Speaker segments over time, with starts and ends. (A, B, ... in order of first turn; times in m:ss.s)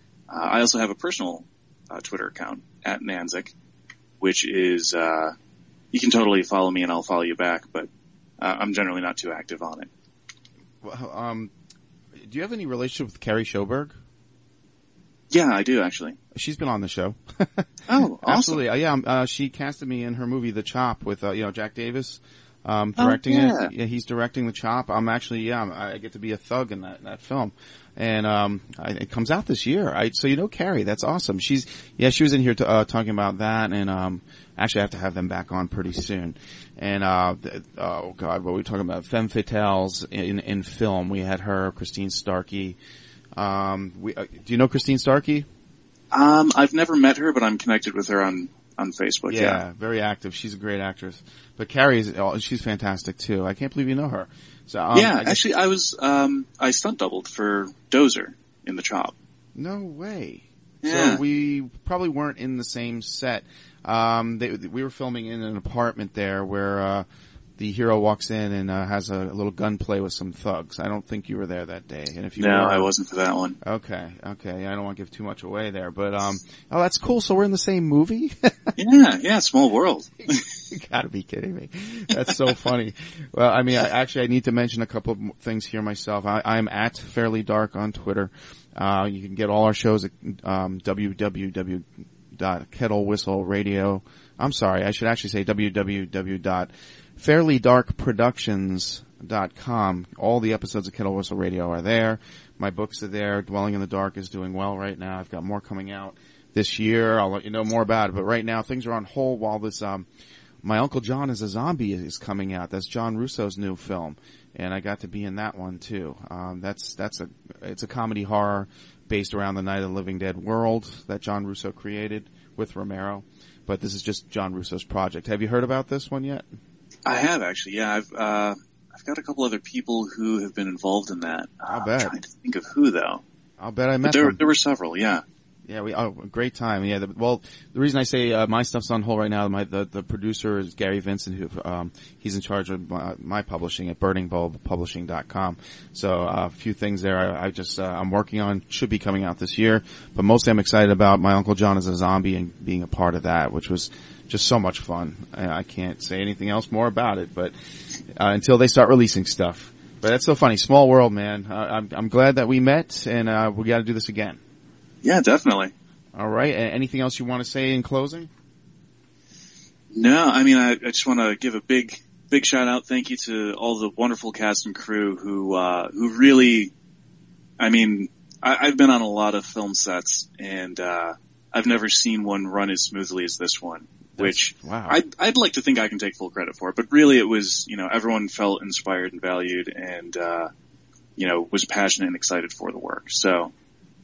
0:00.3-0:03.5 A
0:04.2-0:05.3 A
0:05.9-0:09.9 A
0:10.8-0:11.5 B
0:12.2-0:14.0 B
0:15.3-0:16.2 A
0:16.3-0:42.8 B
0:17.9-0:18.6 A
0:23.0-0:23.7 A
0:43.4-0:45.5 B
0:46.1-0:49.6 A
0:49.3-0:55.4 B
0:54.9-0:59.1 A
0:59.5-1:07.0 B
1:00.8-1:01.2 A
1:07.6-1:12.9 B
1:12.4-1:13.6 A
1:13.6-1:18.8 B
1:18.8-1:20.4 A
1:20.2-1:50.1 B
1:50.6-2:06.5 B
2:07.0-2:13.2 A
2:11.7-2:12.1 B
2:13.6-2:14.4 B
2:14.0-2:15.2 A
2:15.7-2:37.5 B
2:38.1-2:44.4 B
2:45.0-2:45.7 A
2:46.1-2:48.3 B
2:49.9-2:56.7 A
2:57.6-3:10.5 A
3:04.2-3:05.0 B
3:11.2-3:13.5 A